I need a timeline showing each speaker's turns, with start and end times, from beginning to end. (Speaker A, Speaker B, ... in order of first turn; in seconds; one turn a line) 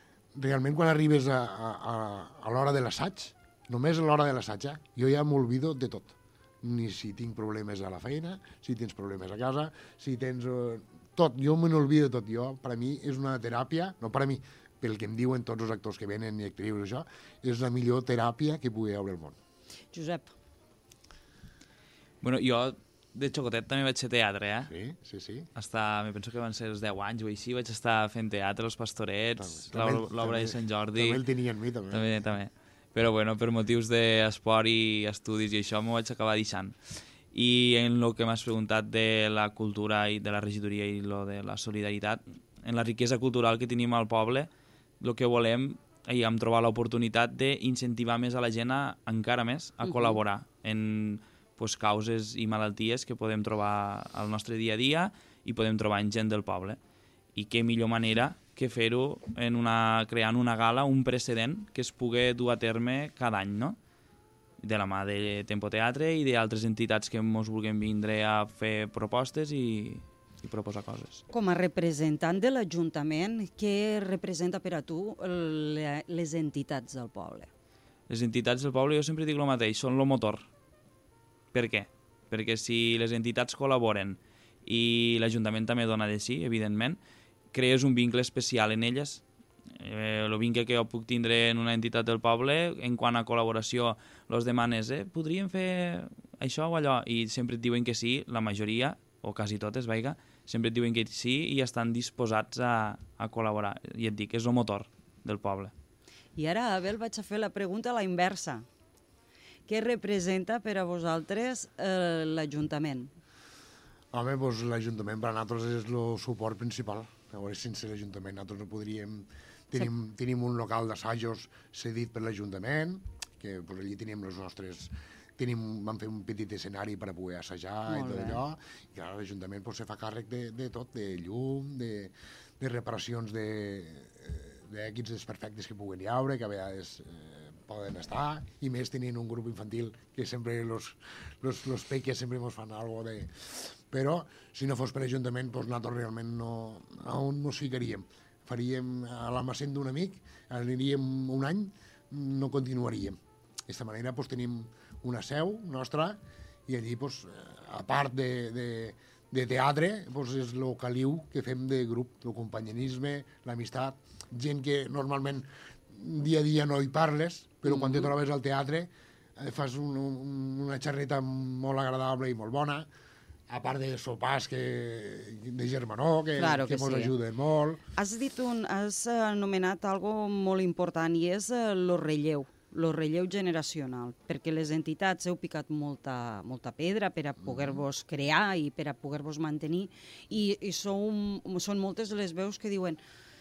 Speaker A: 0.3-19.4
Speaker B: 19.9-20.3
Speaker C: 22.2-24.7
Speaker A: 24.7-25.5
Speaker C: 25.5-31.2
Speaker A: 29.4-32.1
Speaker C: 31.9-36.8
Speaker C: 37.3-44.5
Speaker C: 45.0-56.8
Speaker B: 49.8-50.2
Speaker C: 57.3-63.8
Speaker C: 64.6-71.2
Speaker B: 71.3-77.5
Speaker C: 78.1-80.4
Speaker C: 81.5-87.0
Speaker C: 87.5-89.2
Speaker C: 89.7-105.7
Speaker B: 106.3-108.6
Speaker B: 109.7-113.1
Speaker A: 114.1-172.9
Speaker B: 127.9-128.4
Speaker B: 167.6-168.1
Speaker A: 173.5-177.8
Speaker B: 176.3-177.1
Speaker B: 177.9-193.0